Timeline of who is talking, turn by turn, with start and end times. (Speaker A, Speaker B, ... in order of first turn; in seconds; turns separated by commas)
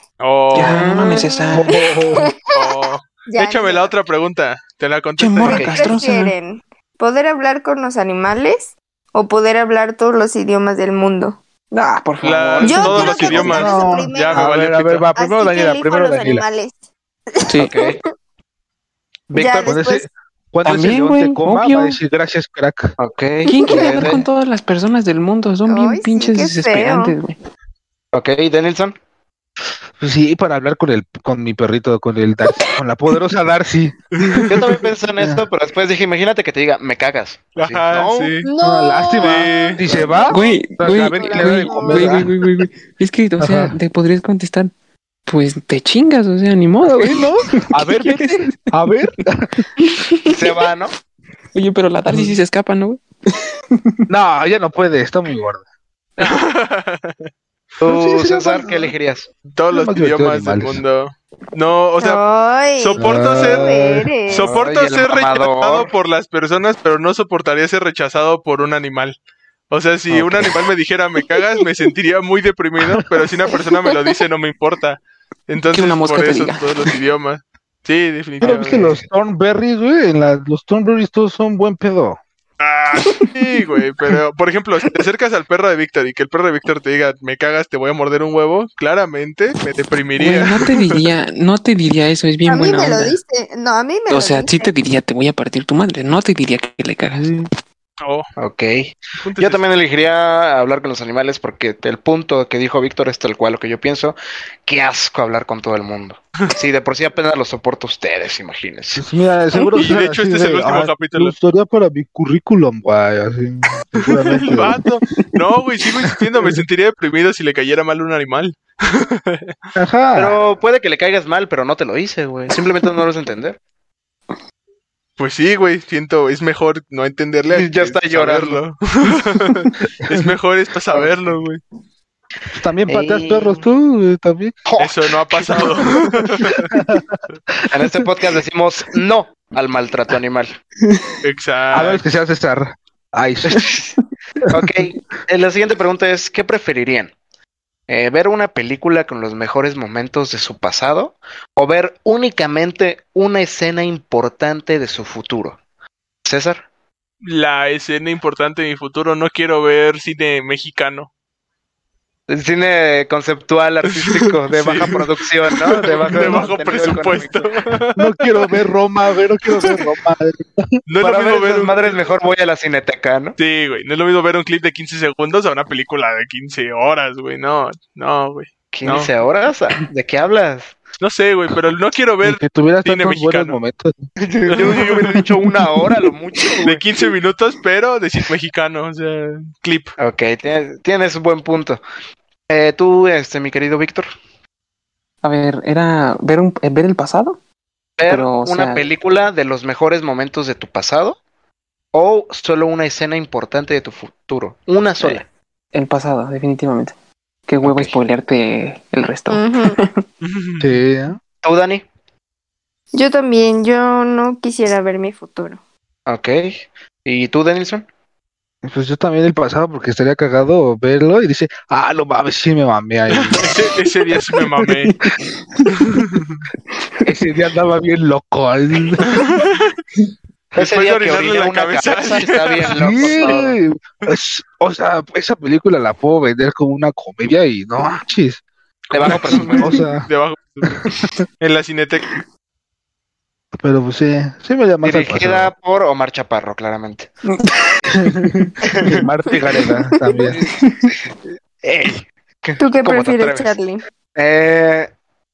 Speaker A: 0.2-1.2, Speaker B: 0.5-1.8, Speaker C: 0.9-2.7, Speaker D: 1.5-2.3, Speaker A: 2.5-5.8, Speaker C: 3.3-3.9, Speaker B: 5.2-6.3, Speaker E: 5.5-5.8, Speaker C: 5.7-11.4, Speaker B: 11.7-13.7, Speaker A: 12.2-15.1, Speaker C: 12.6-14.5, Speaker D: 13.4-16.4, Speaker C: 15.2-16.8, Speaker C: 17.4-18.0, Speaker E: 17.6-18.0, Speaker E: 19.3-19.8, Speaker C: 19.4-20.1, Speaker D: 19.6-23.0, Speaker B: 20.6-22.0, Speaker E: 23.0-24.3, Speaker B: 23.5-27.4, Speaker C: 23.6-23.9, Speaker C: 25.7-27.2, Speaker E: 28.1-29.0, Speaker D: 30.0-34.4, Speaker A: 34.2-34.8, Speaker E: 34.4-38.3, Speaker A: 37.5-38.5, Speaker C: 38.4-42.2, Speaker D: 38.6-42.6, Speaker A: 39.2-39.8, Speaker B: 40.3-44.7, Speaker D: 43.4-43.8, Speaker B: 45.3-48.6, Speaker D: 46.9-49.6, Speaker C: 49.8-50.3, Speaker E: 50.3-50.9, Speaker B: 51.5-54.0, Speaker D: 52.1-52.4, Speaker D: 54.1-55.6, Speaker A: 56.2-57.3, Speaker E: 57.8-59.3, Speaker D: 57.8-58.9, Speaker A: 59.5-62.2, Speaker D: 59.7-60.8, Speaker C: 62.0-64.5, Speaker A: 62.8-69.2, Speaker D: 63.0-64.1, Speaker E: 64.3-65.9, Speaker A: 69.7-79.0, Speaker D: 70.1-70.6, Speaker B: 75.7-76.9, Speaker D: 78.4-82.2, Speaker A: 82.6-91.1, Speaker B: 90.2-93.2, Speaker C: 92.5-94.7, Speaker B: 94.1-97.4, Speaker D: 97.2-97.5, Speaker A: 98.0-98.3, Speaker E: 98.4-109.0, Speaker A: 99.2-99.6, Speaker D: 109.0-114.8, Speaker A: 109.7-111.3, Speaker A: 114.0-119.6, Speaker D: 119.8-120.4, Speaker E: 120.2-123.6, Speaker A: 125.2-131.6, Speaker E: 127.5-128.6, Speaker D: 132.6-134.6, Speaker E: 132.9-133.7, Speaker E: 134.7-136.5, Speaker A: 134.8-136.7, Speaker D: 136.6-137.7, Speaker E: 137.7-140.6, Speaker B: 140.8-141.2, Speaker A: 141.2-142.0, Speaker D: 141.7-143.7, Speaker E: 143.5-143.9, Speaker D: 144.5-144.7, Speaker E: 144.5-147.1, Speaker E: 147.9-155.6, Speaker E: 156.2-156.6, Speaker A: 157.2-161.1, Speaker E: 162.3-167.5, Speaker A: 163.9-168.6, Speaker D: 168.0-170.8, Speaker A: 169.5-169.8, Speaker A: 170.9-172.1, Speaker E: 171.0-173.4, Speaker A: 173.4-179.1, Speaker E: 178.7-180.8, Speaker A: 181.0-183.6, Speaker D: 182.2-184.0, Speaker E: 184.2-186.8, Speaker A: 184.5-185.2, Speaker A: 186.6-189.9, Speaker E: 190.0-191.8, Speaker E: 192.5-194.1, Speaker B: 195.2-197.4, Speaker E: 198.0-201.2, Speaker B: 198.1-198.8, Speaker E: 201.9-205.3, Speaker B: 205.7-206.9, Speaker B: 207.5-210.1, Speaker E: 207.6-208.0, Speaker C: 209.3-209.8, Speaker A: 210.2-210.7, Speaker D: 210.6-211.2, Speaker E: 211.4-211.8, Speaker C: 212.9-215.6, Speaker E: 216.1-217.9, Speaker D: 218.6-223.5, Speaker A: 223.1-224.9, Speaker B: 224.6-225.8, Speaker A: 225.8-226.3, Speaker B: 226.8-227.1, Speaker D: 227.1-229.4, Speaker A: 229.1-229.8, Speaker E: 230.6-233.6, Speaker A: 230.6-233.4, Speaker D: 232.7-238.4, Speaker A: 238.9-242.1, Speaker E: 238.9-239.7, Speaker D: 239.1-240.1, Speaker D: 240.8-241.2, Speaker D: 243.5-245.5, Speaker E: 244.8-247.1, Speaker B: 247.3-248.6, Speaker D: 247.9-250.4, Speaker E: 248.6-249.1, Speaker E: 250.2-253.6, Speaker B: 250.3-250.9, Speaker C: 252.6-253.8, Speaker E: 254.2-254.9